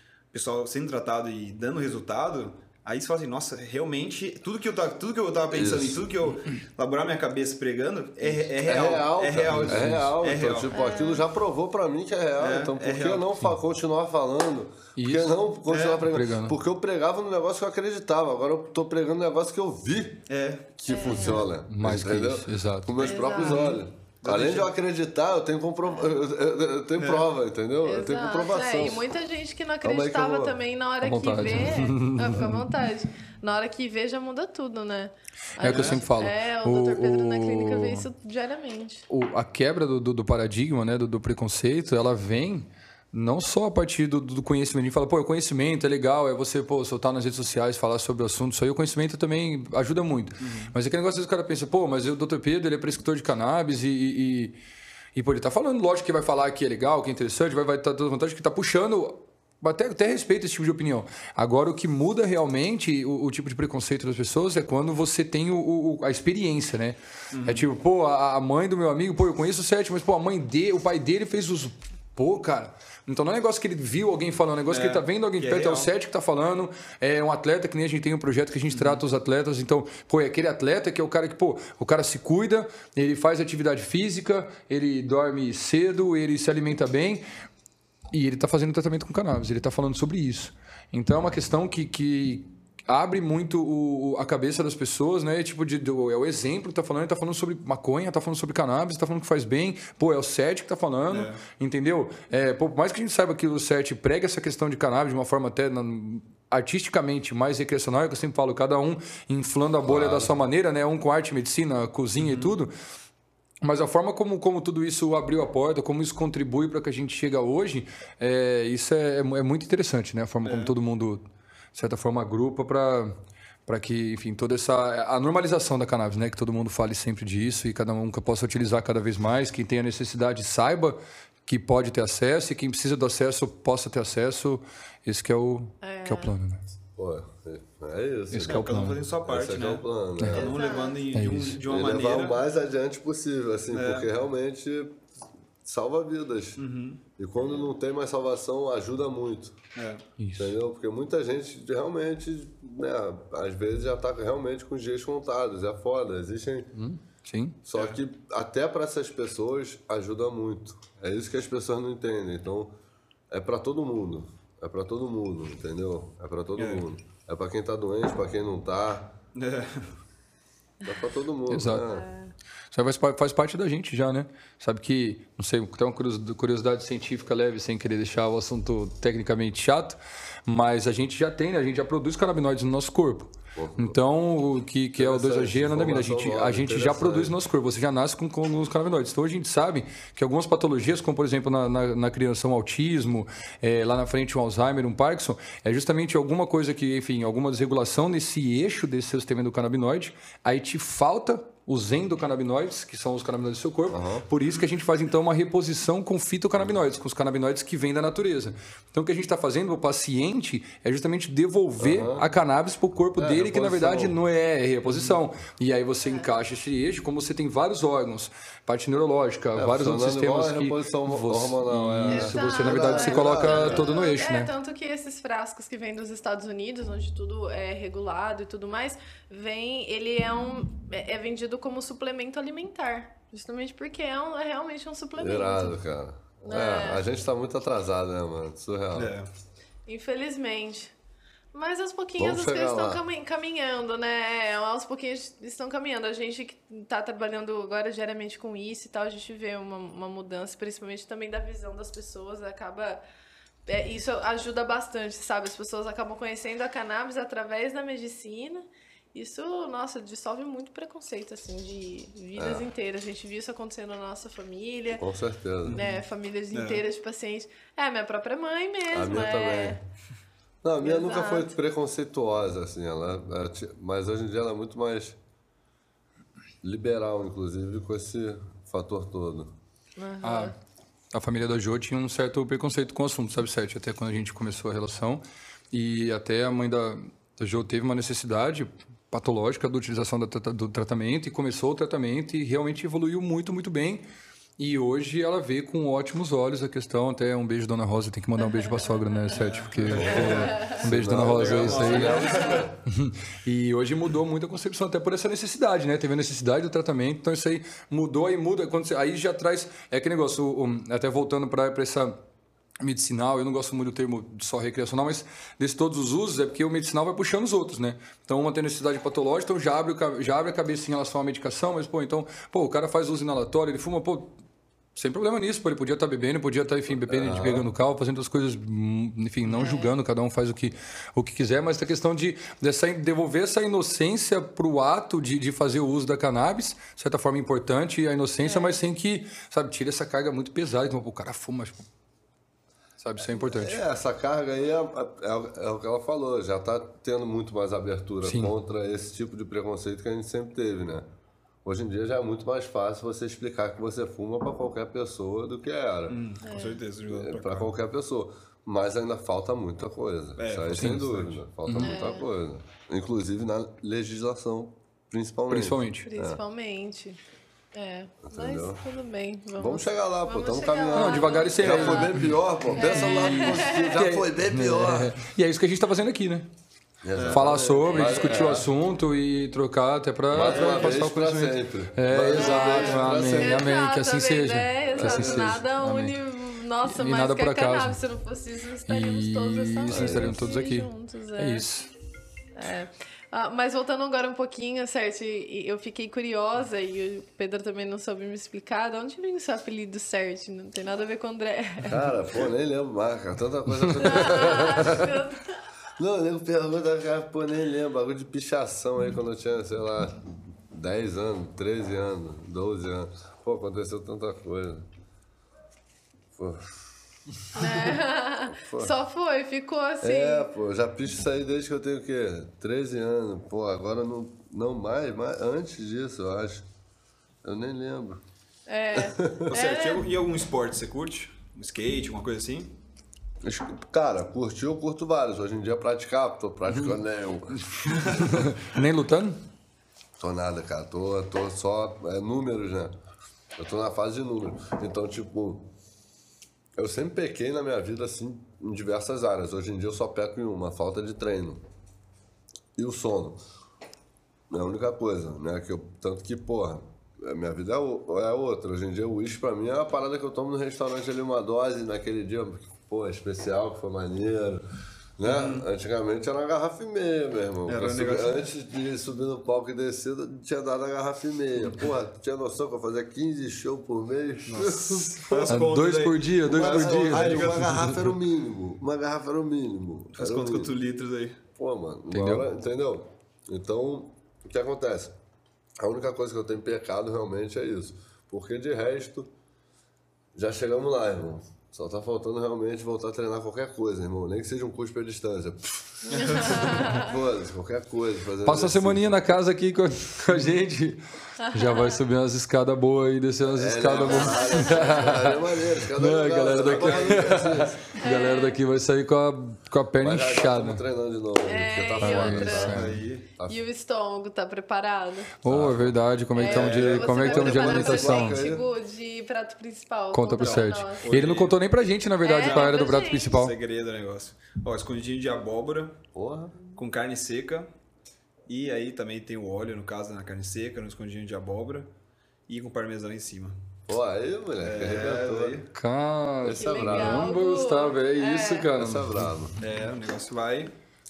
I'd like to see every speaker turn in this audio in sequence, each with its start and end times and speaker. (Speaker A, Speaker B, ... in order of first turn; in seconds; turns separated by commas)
Speaker A: 0.3-10.7, Speaker B: 5.5-6.0, Speaker B: 8.2-20.2, Speaker C: 9.4-10.1, Speaker D: 10.7-11.2, Speaker A: 12.4-13.3, Speaker C: 14.9-15.3, Speaker A: 15.7-16.1, Speaker C: 16.1-16.6, Speaker A: 20.3-20.7, Speaker B: 20.8-29.1, Speaker D: 20.9-21.5, Speaker C: 21.7-23.1, Speaker D: 23.0-23.7, Speaker A: 23.2-24.7, Speaker A: 27.0-27.3, Speaker D: 27.8-39.0, Speaker B: 29.8-30.6, Speaker C: 31.0-32.6, Speaker C: 35.6-38.1, Speaker A: 35.6-36.0, Speaker C: 39.1-54.6, Speaker A: 50.4-50.7, Speaker C: 55.1-87.2, Speaker A: 67.3-67.6, Speaker A: 74.7-75.9, Speaker A: 78.7-79.0, Speaker C: 88.1-112.7, Speaker A: 101.1-101.4, Speaker B: 109.8-110.3, Speaker A: 112.2-112.5, Speaker C: 113.6-123.1, Speaker A: 120.4-120.7, Speaker C: 123.7-136.6, Speaker D: 135.8-136.3, Speaker B: 136.9-140.5, Speaker C: 138.3-139.0, Speaker A: 138.4-142.4, Speaker C: 140.2-140.4, Speaker D: 140.3-141.0, Speaker C: 141.1-141.6, Speaker B: 141.6-145.0, Speaker A: 143.7-144.1, Speaker B: 145.6-146.6, Speaker A: 146.6-147.0, Speaker B: 147.2-149.6, Speaker A: 149.7-150.0, Speaker C: 150.2-150.6, Speaker B: 150.4-156.7, Speaker C: 156.7-157.6, Speaker B: 157.7-162.7, Speaker B: 163.3-169.1, Speaker A: 166.6-166.8, Speaker A: 169.3-169.9, Speaker B: 170.8-172.1, Speaker C: 171.5-171.8, Speaker D: 171.8-172.3, Speaker C: 172.7-224.5, Speaker B: 183.5-184.0, Speaker B: 184.9-187.3, Speaker B: 203.9-204.2, Speaker B: 211.8-212.2, Speaker B: 213.2-214.2, Speaker A: 214.9-215.1, Speaker B: 219.5-223.8, Speaker D: 222.1-235.8, Speaker B: 235.2-239.1, Speaker D: 236.4-237.0, Speaker A: 238.9-239.3, Speaker D: 239.8-240.9, Speaker D: 241.5-253.0, Speaker B: 242.2-243.0, Speaker D: 253.7-265.0, Speaker B: 262.4-262.6, Speaker B: 265.0-265.8, Speaker A: 265.7-266.0, Speaker D: 265.8-269.8, Speaker A: 266.5-266.8, Speaker B: 268.9-269.8, Speaker B: 270.6-275.2, Speaker D: 270.8-271.5, Speaker B: 276.6-279.5, Speaker D: 280.0-280.5, Speaker C: 280.2-280.5, Speaker C: 281.1-294.0, Speaker C: 294.6-312.2, Speaker D: 298.5-299.3, Speaker A: 299.3-302.7, Speaker B: 300.0-302.7, Speaker C: 312.8-324.3, Speaker C: 324.9-341.9, Speaker B: 327.1-327.7, Speaker D: 329.4-329.9, Speaker D: 338.4-338.8, Speaker C: 343.0-343.8, Speaker B: 343.2-351.1, Speaker C: 348.2-348.5, Speaker B: 351.6-356.2, Speaker A: 356.1-357.7, Speaker D: 356.4-356.8, Speaker B: 357.1-366.4, Speaker A: 360.4-361.4, Speaker C: 360.7-361.0, Speaker C: 361.6-362.0, Speaker D: 361.8-362.2, Speaker C: 365.5-366.1, Speaker D: 366.1-367.2, Speaker D: 367.7-373.9, Speaker B: 368.2-368.9, Speaker B: 369.6-375.1, Speaker C: 370.9-376.5, Speaker B: 377.0-378.7, Speaker A: 377.1-377.6, Speaker C: 377.2-386.1, Speaker B: 380.3-383.8, Speaker A: 380.4-381.0, Speaker A: 382.3-383.0, Speaker D: 382.4-391.6, Speaker B: 384.9-385.6, Speaker C: 386.8-388.0, Speaker C: 388.9-391.9, Speaker B: 389.9-390.4, Speaker D: 392.6-402.1, Speaker B: 401.8-405.2, Speaker D: 404.0-405.6, Speaker B: 406.0-414.9, Speaker B: 416.4-416.8, Speaker D: 417.5-420.5, Speaker B: 417.6-418.0, Speaker B: 418.5-418.9, Speaker B: 420.0-426.6, Speaker B: 427.4-428.2, Speaker D: 428.7-430.0, Speaker B: 428.9-429.5, Speaker A: 429.5-432.7, Speaker B: 433.4-438.5, Speaker C: 438.0-439.4, Speaker B: 440.2-442.9, Speaker B: 443.6-445.7, Speaker B: 446.8-451.6, Speaker B: 452.8-453.4, Speaker B: 454.5-464.6, Speaker B: 465.2-475.7, Speaker A: 465.2-465.7, Speaker A: 467.7-468.4, Speaker A: 474.5-477.9, Speaker C: 475.3-478.1, Speaker B: 476.4-480.7, Speaker A: 480.2-481.4, Speaker B: 481.5-485.1, Speaker C: 482.1-482.4, Speaker B: 485.8-489.3, Speaker B: 490.3-499.2, Speaker D: 496.1-497.1, Speaker A: 496.1-496.8, Speaker C: 498.4-510.8, Speaker D: 501.4-502.0, Speaker B: 503.4-508.0, Speaker D: 503.9-505.2, Speaker A: 506.4-507.3, Speaker D: 508.0-508.6, Speaker B: 510.0-513.6, Speaker D: 511.4-512.7, Speaker C: 512.0-513.0, Speaker A: 512.6-513.2, Speaker D: 513.5-515.3, Speaker C: 515.4-518.4, Speaker B: 515.4-518.6, Speaker D: 516.3-521.0, Speaker C: 520.1-523.5, Speaker A: 520.4-521.5, Speaker D: 522.2-523.4, Speaker A: 522.4-526.0, Speaker B: 526.1-526.5, Speaker A: 526.7-527.7, Speaker A: 528.5-531.9, Speaker A: 532.5-533.6, Speaker B: 533.9-535.6, Speaker A: 534.6-535.7, Speaker C: 535.7-539.3, Speaker B: 536.4-537.4, Speaker D: 536.5-538.7, Speaker B: 538.7-539.5, Speaker A: 539.6-540.7